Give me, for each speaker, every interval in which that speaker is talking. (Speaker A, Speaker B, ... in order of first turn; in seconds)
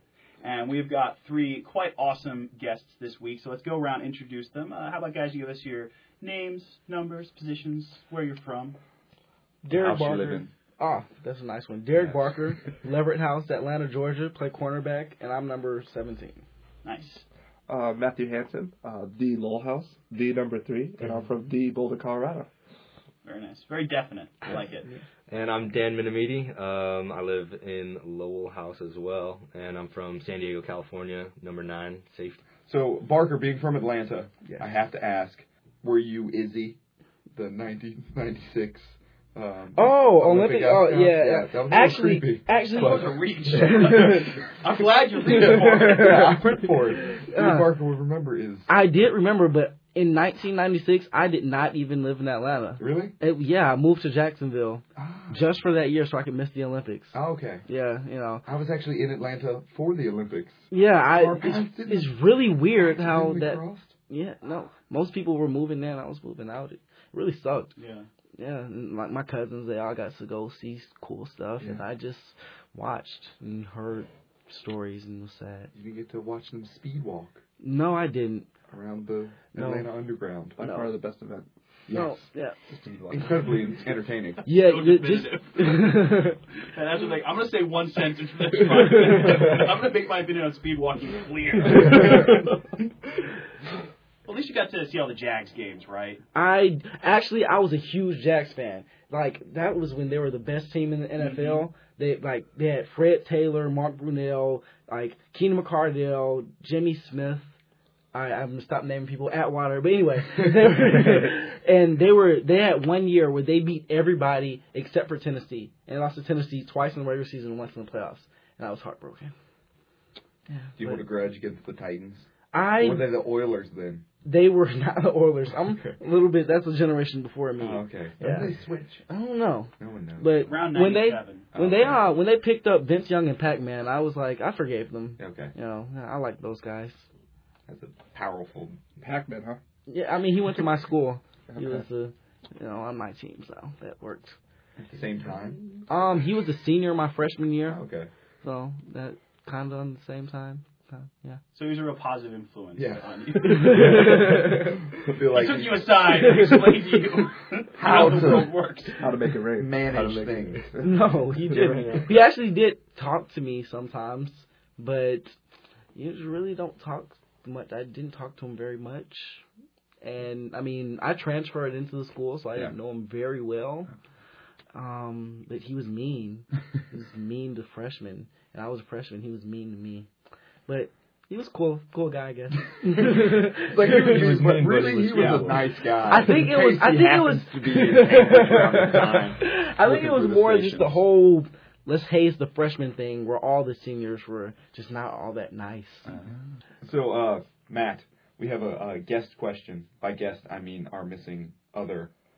Speaker A: 0.4-8.8, 16.8-17.2, 23.2-24.9, 42.8-46.2, 67.8-68.1, 84.5-86.1, 86.6-92.4, 94.2-96.2, 101.2-101.7, 130.5-131.5, 151.5-154.2, 155.3-159.0
Speaker B: 9.6-16.4, 39.8-44.4, 45.3-47.7, 48.7-58.5, 60.7-67.7, 68.4-75.7, 77.6-78.5, 79.5-79.9, 80.6-81.0, 81.9-82.6, 84.5-86.4, 91.8-92.3, 96.3-107.5, 108.1-119.3, 120.5-121.0, 122.5-123.1, 124.2-137.1, 139.9-144.3, 145.9-147.8, 148.4-151.4, 153.5-154.7, 160.8-165.3, 165.9-169.4, 170.0-173.9, 174.7-180.1, 180.7-184.1, 186.1-196.1
Speaker C: 9.7-10.5, 32.7-36.8, 37.4-43.3, 45.3-48.7, 52.8-53.1, 55.0-55.4, 57.1-57.7, 58.4-63.9, 75.7-77.4, 78.7-80.6, 81.9-82.3, 83.1-84.5, 120.8-124.0, 125.7-126.0, 127.6-129.1, 129.8-130.6, 131.5-132.1, 135.2-135.5, 137.7-138.8, 144.8-145.6, 147.7-148.1, 152.8-156.3, 157.8-158.6, 159.6-160.9, 183.2-191.0, 196.8-202.1
Speaker D: 17.7-22.5, 80.6-81.5, 139.0-139.6, 141.5-141.8, 159.0-159.7
Speaker E: 25.3-32.4, 82.7-83.8, 159.9-160.7, 161.3-162.2, 183.8-185.8